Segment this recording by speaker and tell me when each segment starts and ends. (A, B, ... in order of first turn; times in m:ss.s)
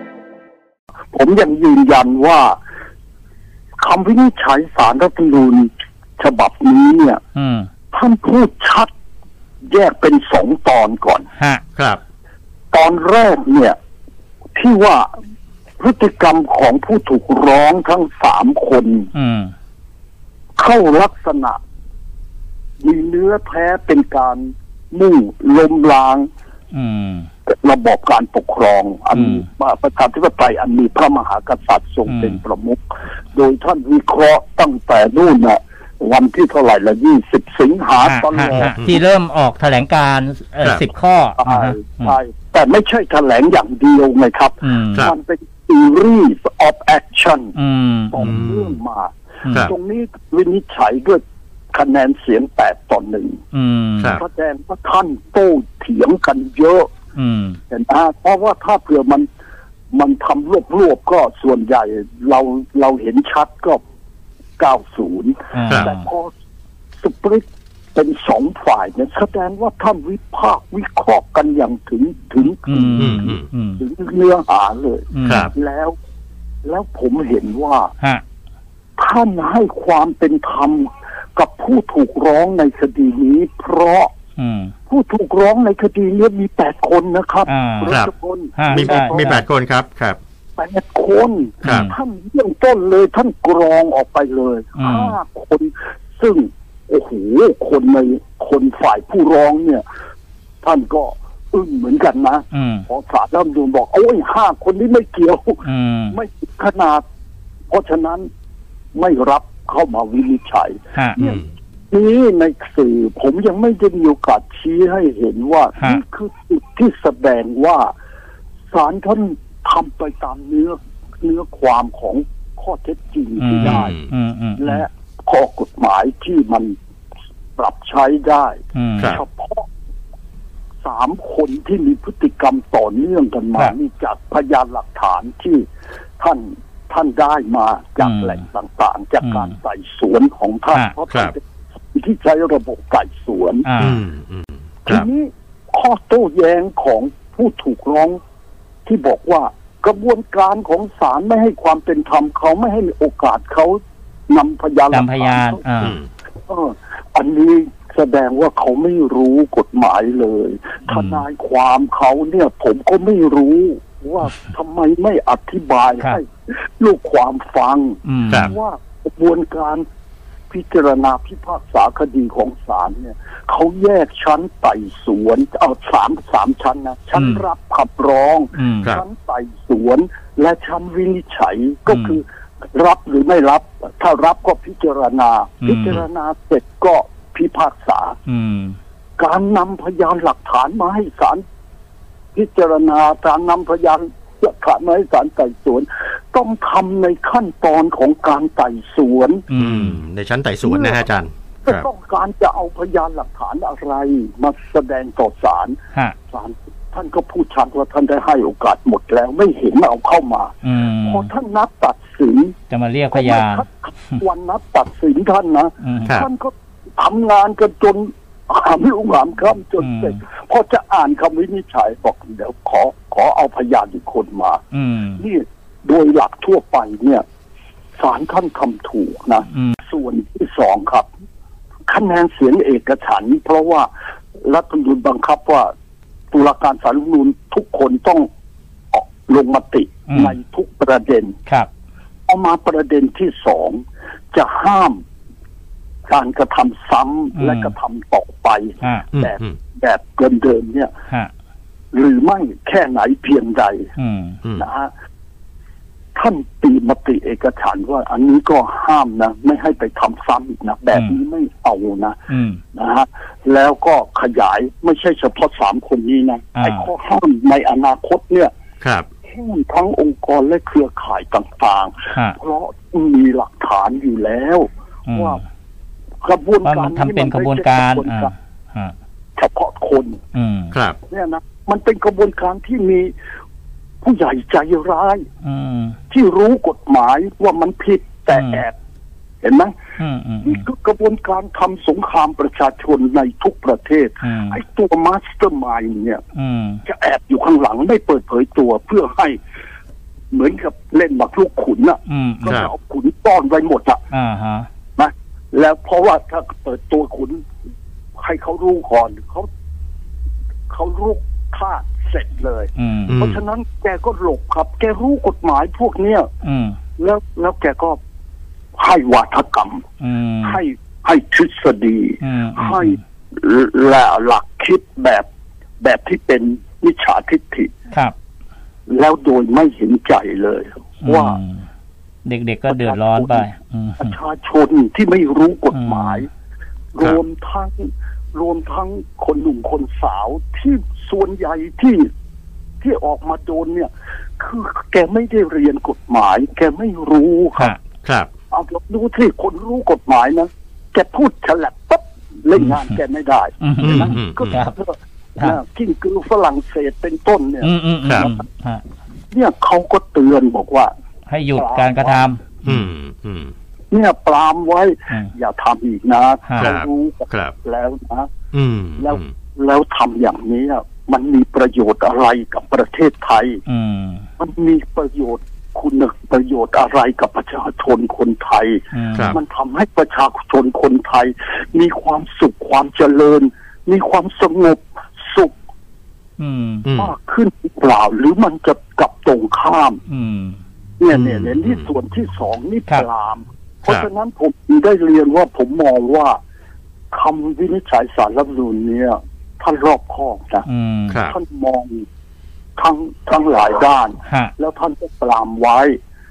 0:01.1-0:02.6 A
0:03.8-0:07.2 A
0:07.4-0:07.7 B
0:07.9-0:08.9 A
0:09.7-0:11.3 A
0:11.8-0:12.0 C
0:12.7-0:13.8 A
0:14.6-0:15.1 A
0:15.8-0:19.1 A
0:19.1-0:19.5 B
0:20.6-0:21.6 A
0:22.8-0:26.3 A
0:26.7-0:27.3 B
0:27.5-0:38.8 A
0:29.2-0:29.4 B
0:32.1-0:32.4 B
0:38.0-0:42.2 B
0:41.4-0:47.6 A
0:44.6-0:45.1 B
0:47.6-0:48.4 B
0:48.1-0:53.4 A
0:48.2-0:48.7 C
0:49.5-0:49.7 B
0:53.5-0:54.2 B
0:54.2-0:56.9 A
0:57.2-0:57.6 B
0:57.7-0:59.3 A
0:59.9-1:03.8 A
1:04.6-1:06.3 A
1:05.5-1:06.1 B
1:07.0-1:16.0 A
1:12.5-1:13.8 B
1:13.0-1:13.4 C
1:15.1-1:15.5 B
1:15.3-1:15.5 C
1:16.6-1:17.9 A
1:19.0-1:24.1 A
1:24.4-1:24.7 B
1:24.9-1:29.4 A
1:27.5-1:28.0 B
1:28.6-1:29.4 B
1:28.7-1:30.2 C
1:30.6-1:39.8 A
1:31.6-1:31.9 B
1:34.8-1:35.2 B
1:40.6-1:47.0 A
1:42.5-1:42.8 B
1:45.6-1:46.2 B
1:47.7-1:48.3 A
1:48.9-1:57.9 A
1:58.7-2:04.0 A
2:03.4-2:04.9 B
2:03.6-2:04.1 C
2:04.6-2:06.8 A
2:07.6-2:09.7 A
2:08.8-2:09.2 B
2:10.8-2:15.7 A
2:16.2-2:21.4 A
2:18.0-2:18.4 B
2:19.2-2:19.5 B
2:21.9-2:23.7 A
2:23.6-2:24.0 B
2:23.8-2:25.1 C
2:24.9-2:28.2 A
2:28.9-2:35.6 A
2:34.9-2:36.0 B
2:35.8-2:36.1 C
2:36.5-2:49.9 A
2:40.9-2:41.2 B
2:48.1-2:48.5 B
2:50.5-3:08.2 A
2:57.2-2:57.4 B
2:58.6-2:59.0 B
3:01.9-3:02.2 B
3:05.6-3:06.0 B
3:08.3-3:08.8 B
3:09.2-3:11.4 A
3:12.4-3:19.5 A
3:19.5-3:20.0 B
3:19.5-3:21.9 C
3:20.6-3:21.1 A
3:21.6-3:25.8 A
3:26.3-3:32.6 A
3:30.6-3:31.3 B
3:32.7-3:33.6 B
3:33.1-3:44.6 A
3:35.8-3:36.2 B
3:39.8-3:40.2 B
3:44.7-3:45.2 B
3:45.2-3:47.2 A
3:48.0-3:51.1 A
3:49.5-3:49.8 B
3:51.9-3:55.7 A
3:56.3-3:58.3 A
3:58.9-4:01.4 A
4:02.3-4:05.0 A
4:06.1-4:10.9 A
4:07.4-4:07.7 B
4:09.1-4:09.6 C
4:11.9-4:13.9 A
4:14.0-4:14.4 B
4:14.6-4:14.9 A
4:16.2-4:28.5 A
4:20.9-4:21.2 B
4:22.3-4:22.6 B
4:26.6-4:26.9 B
4:28.8-4:29.1 C
4:29.3-4:35.4 A
4:35.1-4:35.4 B
4:36.2-4:38.3 A
4:36.6-4:39.0 B
4:39.4-4:40.2 A
4:40.3-4:40.7 B
4:40.7-4:41.0 C
4:41.1-4:43.1 A
4:44.0-4:45.3 A
4:45.4-4:46.0 B
4:46.1-4:48.8 A
4:48.3-4:48.6 B
4:49.4-4:49.8 A
4:50.0-4:50.6 B
4:50.4-4:56.2 A
4:54.2-4:54.6 B
4:56.4-4:56.8 B
4:56.8-4:59.4 A
5:00.3-5:04.0 A
5:02.1-5:02.6 B
5:02.5-5:02.7 C
5:04.1-5:04.7 B
5:05.0-5:07.4 A
5:08.2-5:09.5 A
5:10.7-5:16.3 A
5:12.8-5:13.2 B
5:13.1-5:13.4 C
5:16.4-5:16.8 B
5:17.0-5:18.0 A
5:18.8-5:19.9 A
5:20.0-5:20.6 B
5:20.4-5:25.3 A
5:22.2-5:23.0 B
5:25.8-5:27.7 A
5:28.9-5:31.4 A
5:31.0-5:31.6 B
5:32.2-5:34.1 B
5:32.7-5:33.5 A
5:34.0-5:36.3 A
5:35.7-5:36.2 B
5:36.9-5:42.1 A
5:42.8-5:47.7 A
5:48.0-5:48.3 C
5:48.5-5:58.4 A
5:53.6-5:54.8 B
5:53.8-5:54.6 C
5:57.6-5:58.8 B
5:59.3-6:00.9 A
6:01.3-6:02.9 B
6:01.6-6:02.3 A
6:02.6-6:03.5 C
6:03.9-6:08.3 A
6:06.6-6:07.6 C
6:08.5-6:09.3 C
6:09.0-6:13.6 A
6:13.7-6:14.2 B
6:14.4-6:25.5 A
6:18.9-6:19.4 B
6:19.1-6:19.4 C
6:26.4-6:26.9 B
6:26.8-6:27.1 C
6:27.0-6:30.0 A
6:30.1-6:30.6 B
6:31.0-6:36.4 A
6:31.1-6:31.9 C
6:37.1-6:40.7 A
6:40.7-6:41.2 B
6:41.1-6:41.4 C
6:41.3-6:42.0 A
6:42.8-6:46.0 A
6:44.3-6:44.5 B